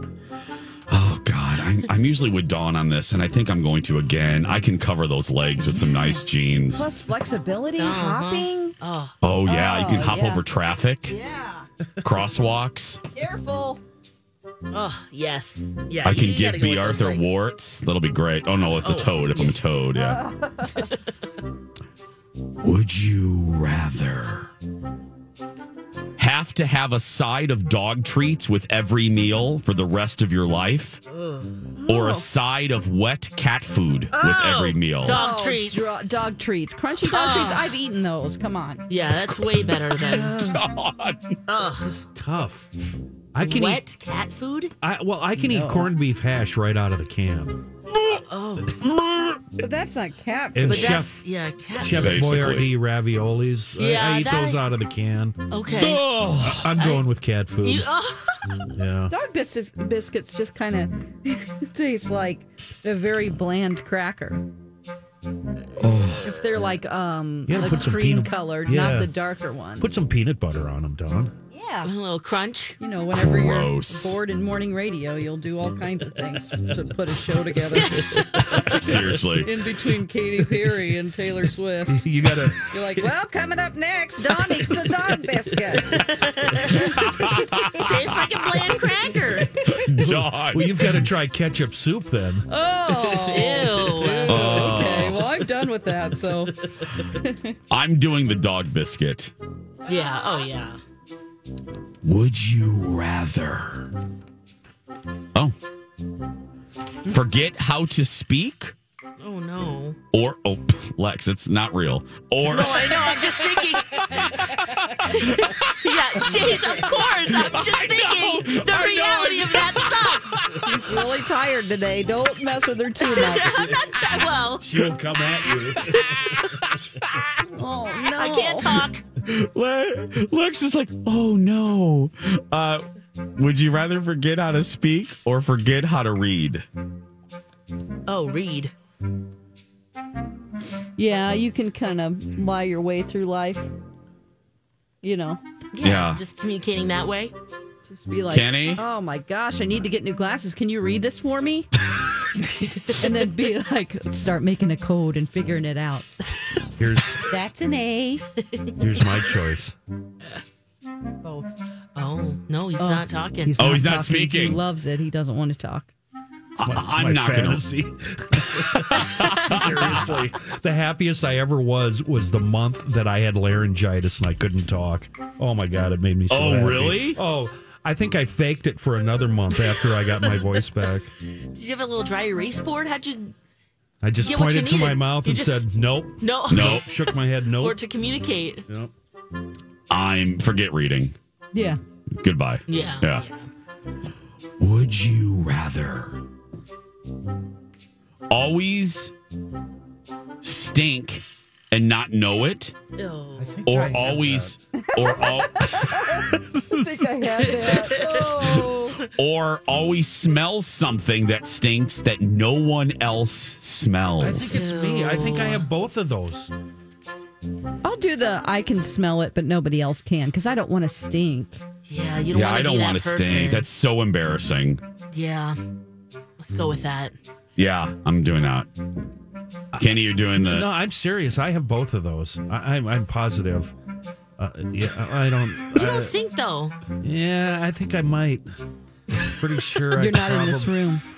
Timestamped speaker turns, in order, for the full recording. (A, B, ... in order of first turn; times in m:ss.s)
0:00.9-0:06.9 A
0:06.7-0:08.7 B
0:07.8-0:09.2 C
0:09.2-0:11.2 A
0:09.4-0:10.4 B
0:11.0-0:11.6 B
0:12.0-0:13.0 A
0:13.1-0:13.8 B
0:14.7-0:17.3 C
0:16.0-0:20.2 A
0:18.8-0:19.6 C
0:19.9-0:20.9 B
0:22.6-0:24.5 A
0:26.2-0:31.0 A
0:31.1-0:31.5 C
0:31.8-0:32.3 B
0:31.9-0:35.2 A
0:34.1-0:36.0 C
0:35.0-0:38.8 B
0:37.0-0:37.7 C
0:38.9-0:40.5 C
0:40.1-0:41.4 A
0:41.5-0:41.9 C
0:41.8-0:42.7 D
0:43.3-0:43.8 D
0:43.4-0:44.7 C
0:44.8-0:47.6 D
0:45.4-0:45.9 B
0:48.3-0:48.8 C
0:49.6-0:51.0 B
0:50.5-0:51.2 D
0:50.7-0:52.3 C
0:51.8-0:57.9 D
0:51.9-0:52.7 A
0:53.8-0:54.6 C
0:55.5-0:56.1 C
0:55.8-0:56.6 A
0:56.6-0:57.0 C
0:57.6-0:58.5 C
0:58.7-0:59.1 D
0:59.1-1:04.4 B
1:05.8-1:06.2 A
1:06.2-1:09.9 B
1:07.5-1:09.1 D
1:09.8-1:11.3 D
1:11.5-1:11.9 B
1:11.8-1:12.8 C
1:12.8-1:18.1 B
1:13.1-1:14.2 A
1:17.7-1:18.8 C
1:18.7-1:19.6 A
1:19.4-1:22.0 B
1:21.9-1:22.6 D
1:22.7-1:26.0 B
1:25.9-1:27.0 C
1:26.7-1:28.2 A
1:27.7-1:29.6 C
1:29.7-1:31.0 A
1:30.0-1:32.5 D
1:32.5-1:37.5 B
1:33.1-1:34.7 C
1:34.2-1:35.3 A
1:37.7-1:39.3 A
1:39.8-1:40.5 B
1:39.8-1:40.8 C
1:42.0-1:43.9 A
1:47.1-1:48.7 A
1:49.2-1:50.0 C
1:50.1-1:53.2 A
1:52.4-1:54.5 C
1:54.2-1:55.8 A
1:55.0-2:00.5 C
1:56.4-1:56.8 B
1:57.3-2:00.6 A
2:00.5-2:03.7 B
2:03.0-2:04.9 C
2:04.6-2:06.1 D
2:05.9-2:06.5 C
2:07.5-2:08.8 B
2:08.1-2:09.0 C
2:09.2-2:12.8 A
2:13.4-2:16.6 A
2:18.1-2:18.7 C
2:21.0-2:23.7 B
2:25.0-2:25.4 B
2:25.7-2:27.3 C
2:25.8-2:26.2 A
2:27.9-2:31.7 B
2:28.3-2:28.8 A
2:32.6-2:32.9 C
2:33.0-2:36.1 B
2:36.8-2:37.2 D
2:37.3-2:38.2 B
2:38.8-2:39.8 D
2:41.9-2:43.5 C
2:42.8-2:45.9 B
2:43.6-2:44.6 A
2:46.6-2:47.6 A
2:46.6-3:01.1 D
2:48.8-2:50.1 A
2:56.3-2:57.2 A
3:01.5-3:03.3 C
3:04.0-3:07.8 D
3:04.2-3:05.7 C
3:06.2-3:08.6 C
3:06.5-3:06.8 A
3:09.9-3:11.1 A
3:11.5-3:11.8 B
3:12.2-3:13.2 A
3:12.7-3:13.5 C
3:14.6-3:16.2 A
3:18.3-3:19.1 A
3:20.4-3:22.7 A
3:23.0-3:23.6 C
3:23.4-3:24.5 D
3:23.6-3:26.6 A
3:24.9-3:28.9 B
3:27.6-3:28.3 C
3:28.6-3:34.6 A
3:34.2-3:36.5 D
3:34.3-3:35.6 C
3:37.8-3:41.6 B
3:41.9-3:43.6 C
3:42.3-3:44.8 A
3:45.1-3:45.6 C
3:46.4-3:47.1 C
3:47.6-3:48.7 A
3:49.7-3:53.7 D
3:49.8-3:50.7 A
3:54.4-3:56.1 D
3:55.7-3:56.8 C
3:57.0-3:58.5 D
3:59.3-4:00.8 D
4:00.0-4:01.0 B